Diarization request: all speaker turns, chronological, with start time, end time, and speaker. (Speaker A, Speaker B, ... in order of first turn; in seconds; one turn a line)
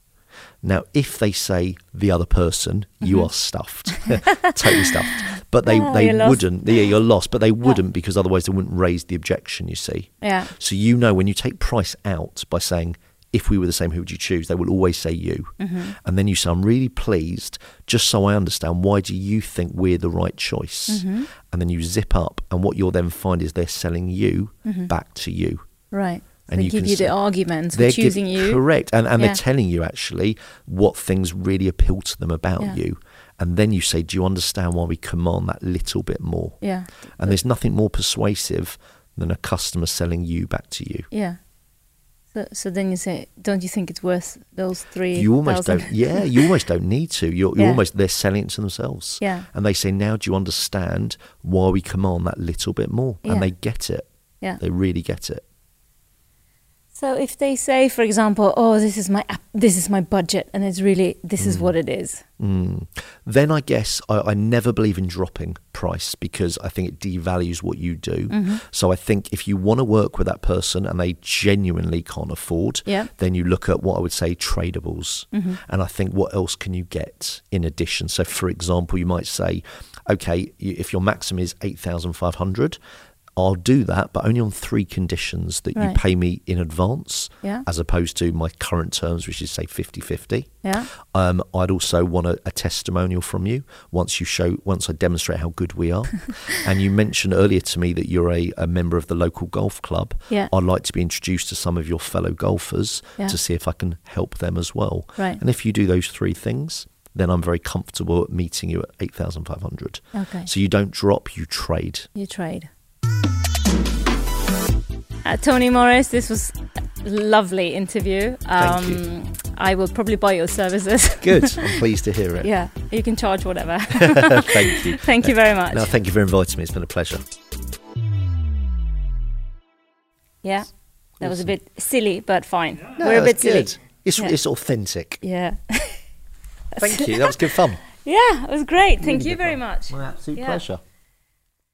Speaker A: 0.6-25.6
Speaker B: 3.0-3.3
Speaker B: 4.2-6.8
Speaker B: 10.2-10.5
Speaker B: 15.6-16.0
Speaker B: 20.9-21.3
Speaker B: 24.6-24.9
Speaker B: 25.9-28.6
Speaker A: 26.5-27.1
Speaker A: 27.7-36.6
Speaker B: 36.6-37.3
Speaker A: 37.2-41.1
Speaker B: 41.1-41.4
Speaker B: 42.3-46.5
Speaker A: 45.1-54.1
Speaker B: 47.6-47.8
Speaker B: 49.2-49.5
Speaker A: 54.6-55.4
Speaker B: 57.0-62.2
Speaker A: 61.4-61.7
Speaker A: 62.4-82.8
Speaker B: 68.3-68.6
Speaker B: 75.3-75.6
Speaker A: 83.4-112.1
Speaker B: 90.6-90.9
Speaker B: 110.1-110.5
Speaker B: 112.2-112.7
Speaker B: 115.2-121.8
Speaker A: 118.6-119.0
Speaker A: 121.2-122.5
Speaker B: 122.4-125.9
Speaker A: 123.9-127.2
Speaker B: 130.4-134.3
Speaker A: 131.2-131.5
Speaker A: 133.0-135.2
Speaker B: 135.2-136.0
Speaker B: 136.8-140.6
Speaker A: 136.8-137.8
Speaker A: 139.0-140.8